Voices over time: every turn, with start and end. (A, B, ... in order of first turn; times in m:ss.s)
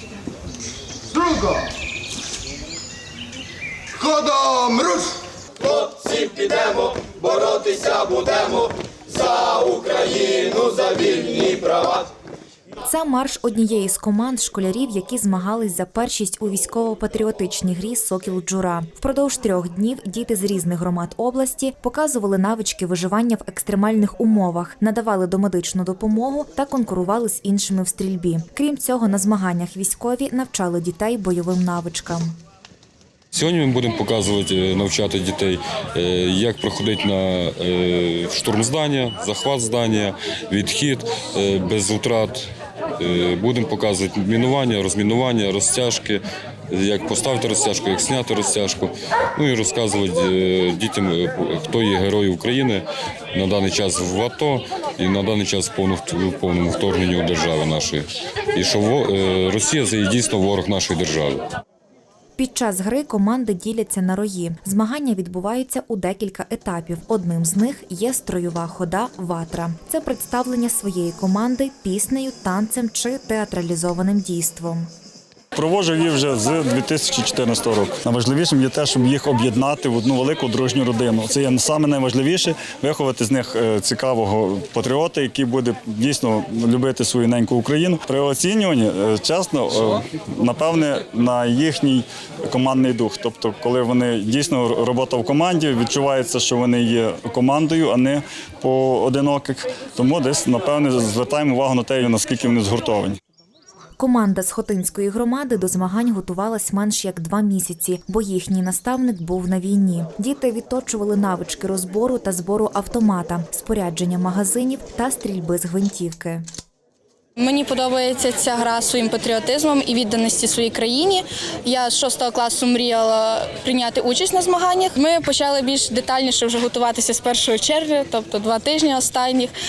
0:01.2-0:01.6 A
0:04.0-0:05.1 A
0:06.1-0:08.5 B
0:09.4-0:12.0 B
0:10.6-0:11.5 A
0:12.8-0:32.4 C
0:33.3-0:42.5 D
0:43.0-1:01.4 D
1:02.4-1:14.9 C
1:15.6-1:43.2 E
1:44.0-1:56.4 C
1:57.4-2:09.5 F